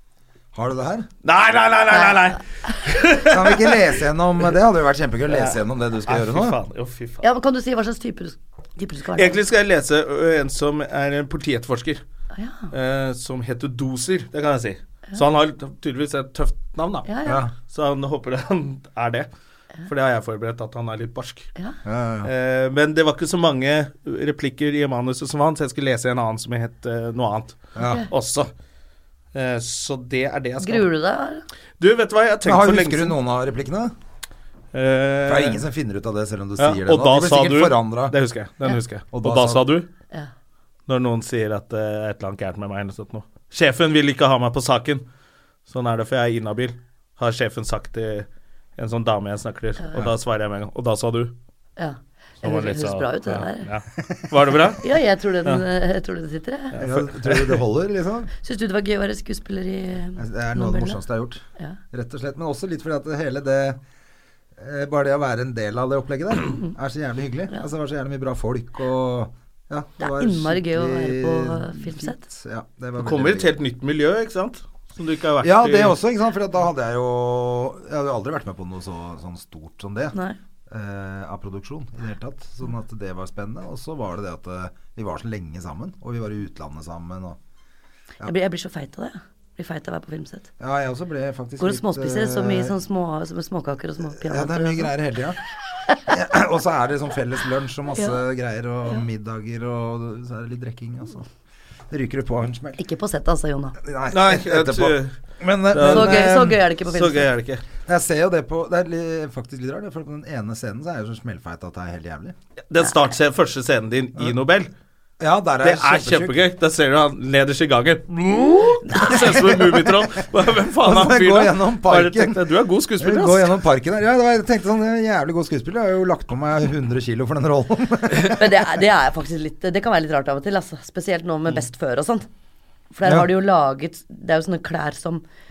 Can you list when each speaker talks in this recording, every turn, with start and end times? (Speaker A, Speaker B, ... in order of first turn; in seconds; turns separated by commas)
Speaker A: 0.5-1.1, Speaker B: 1.2-3.9, Speaker C: 1.9-2.8, Speaker A: 3.3-6.5, Speaker B: 5.3-7.2, Speaker C: 7.2-9.4, Speaker B: 9.1-12.0, Speaker C: 12.3-12.7, Speaker B: 12.7-19.3, Speaker C: 17.1-17.4, Speaker A: 17.2-17.5, Speaker B: 19.8-21.5, Speaker A: 21.8-22.3, Speaker B: 22.2-28.5, Speaker A: 27.8-28.1, Speaker B: 29.3-30.9, Speaker C: 30.6-31.4, Speaker B: 31.8-33.1, Speaker A: 32.4-33.9, Speaker B: 34.7-35.6, Speaker A: 35.3-38.1, Speaker B: 36.6-39.9, Speaker A: 39.1-39.6, Speaker B: 40.9-45.0, Speaker B: 45.7-51.3, Speaker C: 51.8-53.7, Speaker B: 52.4-54.9, Speaker A: 54.0-54.2, Speaker C: 54.8-56.8, Speaker B: 56.7-57.6, Speaker A: 56.8-58.3, Speaker C: 58.4-61.0, Speaker A: 60.2-63.8, Speaker A: 64.6-73.5, Speaker C: 70.0-72.2, Speaker B: 73.0-76.0, Speaker A: 75.4-80.2, Speaker A: 80.7-87.4, Speaker C: 88.2-90.5, Speaker A: 90.6-92.8, Speaker C: 91.6-94.9, Speaker A: 94.1-95.4, Speaker A: 96.1-101.3, Speaker A: 101.9-102.8, Speaker C: 102.8-103.8, Speaker A: 103.8-106.6, Speaker B: 104.1-105.1, Speaker B: 105.7-106.3, Speaker C: 105.8-107.3, Speaker B: 106.9-107.6, Speaker A: 107.8-112.3, Speaker B: 112.7-114.7, Speaker A: 115.2-116.4, Speaker B: 115.6-123.5, Speaker C: 118.9-119.5, Speaker A: 120.7-128.8, Speaker C: 128.2-132.2, Speaker C: 132.9-135.2, Speaker A: 133.0-133.3